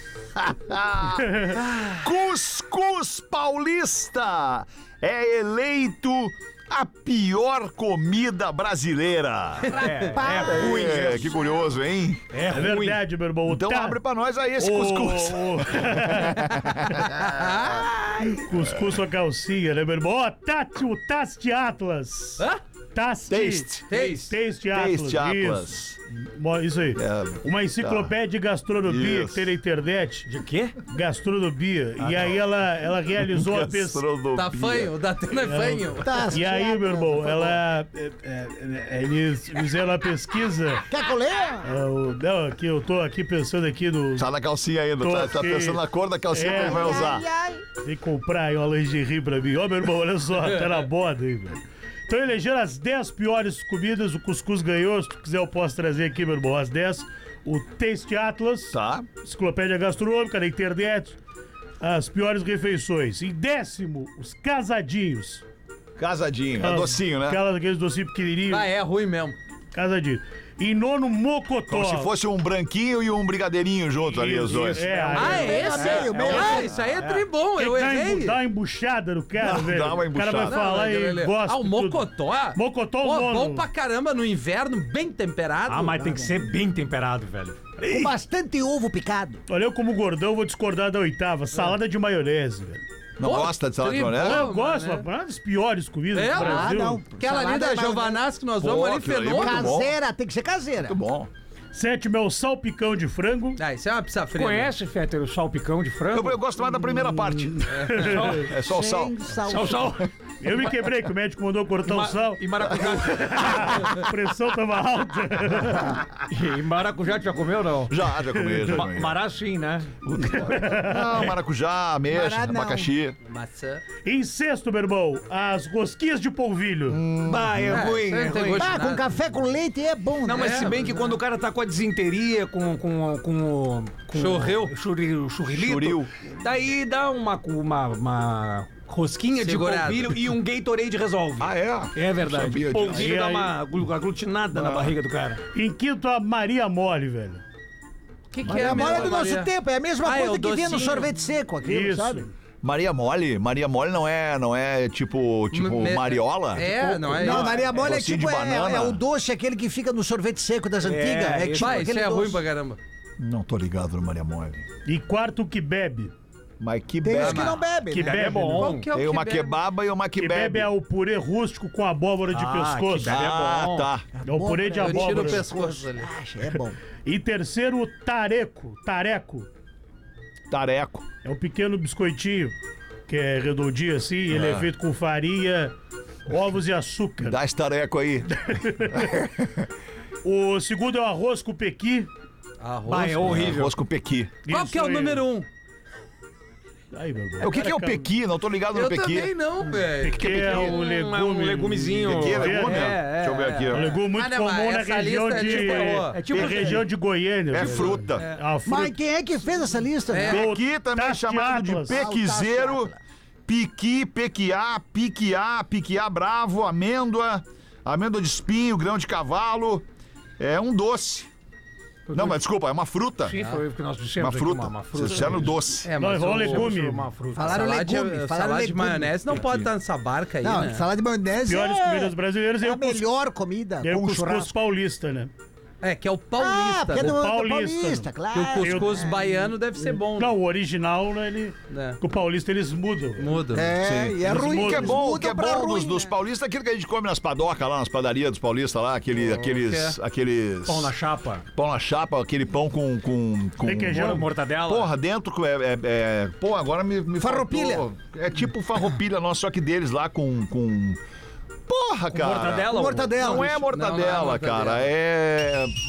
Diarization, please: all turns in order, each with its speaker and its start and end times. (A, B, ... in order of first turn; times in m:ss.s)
0:00.4-0:12.2 A
0:01.2-0:01.6 B
0:09.6-0:10.1 C
0:09.7-0:11.4 D
0:10.1-0:11.3 E
0:12.3-0:13.0 D
0:12.5-0:14.0 B
0:13.5-0:17.8 A
0:14.6-0:17.0 B
0:17.1-0:18.4 C
0:18.4-0:30.3 B
0:23.3-0:23.9 A
0:23.9-0:24.3 C
0:24.7-0:26.0 A
0:27.0-0:28.1 A
0:28.8-0:29.5 A
0:30.3-0:30.8 D
0:30.9-0:34.0 B
0:32.0-0:32.4 D
0:33.2-0:34.9 A
0:34.4-0:36.2 C
0:35.4-0:40.8 B
0:36.0-0:37.6 E
0:40.9-0:41.7 E
0:41.6-0:44.3 B
0:44.2-0:47.2 A
0:45.0-0:45.8 B
0:46.3-0:47.2 B
0:46.4-0:47.6 E
0:47.8-1:01.2 B
0:58.7-0:59.1 A
1:01.8-1:05.4 B
1:06.0-1:07.4 A
1:06.6-1:08.7 B
1:08.5-1:09.4 C
1:09.7-1:12.1 B
1:11.7-1:14.9 A
1:14.2-1:17.3 D
1:14.4-1:15.8 B
1:15.2-1:16.7 E
1:15.2-1:18.4 C
1:17.6-1:23.7 B
1:19.4-1:20.6 A
1:20.4-1:26.1 C
1:25.7-1:28.1 D
1:26.0-1:26.4 E
1:27.8-1:29.4 E
1:29.5-1:32.8 B
1:33.2-1:34.5 A
1:33.2-1:35.0 C
1:34.2-1:37.0 B
1:36.1-1:39.8 C
1:36.3-1:38.2 E
1:38.6-1:39.9 A
1:39.3-1:41.0 E
1:40.8-1:41.3 A
1:41.7-1:43.6 B
1:43.6-1:44.7 C
1:44.3-1:46.4 D
1:46.1-1:49.7 A
1:47.2-1:48.4 B
1:47.7-1:48.2 C
1:48.0-1:48.5 D
1:48.6-1:50.0 E
1:49.5-1:50.1 D
1:50.4-1:56.0 B
1:51.8-1:53.8 D
1:56.3-1:57.9 D
1:57.9-1:59.2 A
1:58.4-1:58.8 B
1:58.7-2:00.4 D
2:00.1-2:03.2 A
2:00.2-2:01.1 B
2:02.1-2:02.9 E
2:03.3-2:03.8 C
2:04.0-2:07.0 B
2:07.0-2:07.6 E
2:07.1-2:07.8 A
2:07.2-2:08.7 D
2:07.7-2:09.1 C
2:08.6-2:11.1 E
2:10.2-2:25.4 D
2:10.3-2:10.8 C
2:14.1-2:14.7 C
2:15.5-2:16.1 A
2:19.4-2:20.2 C
2:21.4-2:23.2 A
2:22.9-2:23.6 B
2:24.5-2:24.9 A
2:25.5-2:27.4 B
2:28.3-2:29.5 C
2:28.4-2:29.2 A
2:28.4-2:32.3 E
2:30.0-2:31.1 C
2:31.6-2:32.3 B
2:32.6-2:39.0 A
2:35.5-2:37.6 C
2:37.1-2:42.4 E
2:40.8-2:41.9 D
2:41.6-2:42.8 C
2:43.2-2:44.7 A
2:44.8-2:46.1 B
2:46.6-2:47.6 A
2:47.0-2:48.5 E
2:47.2-2:47.6 C
2:47.9-2:48.9 D
2:47.9-2:48.7 B
2:48.6-2:49.6 C
2:48.9-2:50.7 A
2:50.2-2:53.2 B
2:52.3-2:53.9 D
2:53.1-2:54.0 A
2:54.2-2:56.8 E
2:54.2-2:55.5 B
2:54.8-2:56.1 C
2:57.1-2:59.5 B
3:00.5-3:01.0 A
3:01.2-3:02.5 B
3:03.1-3:05.7 B
3:04.3-3:04.7 A
3:06.3-3:07.4 B
3:07.2-3:09.7 A
3:08.5-3:09.1 B
3:10.2-3:12.1 B
3:12.6-3:13.5 C
3:12.9-3:13.8 D
3:13.2-3:14.3 A
3:14.4-3:15.3 B
3:14.5-3:15.5 C
3:16.9-3:18.1 B
3:17.4-3:19.3 A
3:18.7-3:20.3 C
3:20.0-3:23.0 B
3:20.1-3:20.8 A
3:20.3-3:23.9 D
3:22.0-3:23.9 A
3:23.7-3:29.0 B
3:24.1-3:26.2 C
3:25.4-3:26.8 D
3:26.3-3:26.8 A
3:27.5-3:28.2 A
3:28.7-3:30.5 E
3:30.1-3:30.5 C
3:30.3-3:32.0 B
3:30.3-3:32.9 A
3:31.9-3:33.0 E
3:33.5-3:39.9 A
3:40.4-3:41.3 A
3:42.1-3:42.4 D
3:42.1-3:43.4 A
3:43.2-3:47.7 D
3:43.4-3:43.6 C
3:44.2-3:45.9 A
3:45.8-3:46.7 C
3:46.0-3:47.1 B
3:47.4-3:49.4 E
3:47.4-3:50.8 C
3:49.3-3:49.6 A
3:50.4-3:54.5 E
3:51.5-3:53.1 B
3:53.8-3:55.3 B
3:55.8-3:57.2 C
3:56.4-3:59.2 E
3:56.9-3:59.1 B
3:58.3-4:00.4 C
4:00.2-4:03.4 B
4:01.7-4:02.0 C
4:03.2-4:03.7 C
4:03.5-4:06.1 E
4:03.8-4:10.9 A
4:04.3-4:05.0 B
4:09.1-4:10.0 C
4:10.7-4:11.4 D
4:11.6-4:21.0 A
4:13.6-4:14.3 B
4:13.9-4:14.9 D
4:17.2-4:17.9 E
4:21.7-4:25.8 A
4:22.1-4:23.5 D
4:22.7-4:23.6 E
4:23.5-4:24.9 C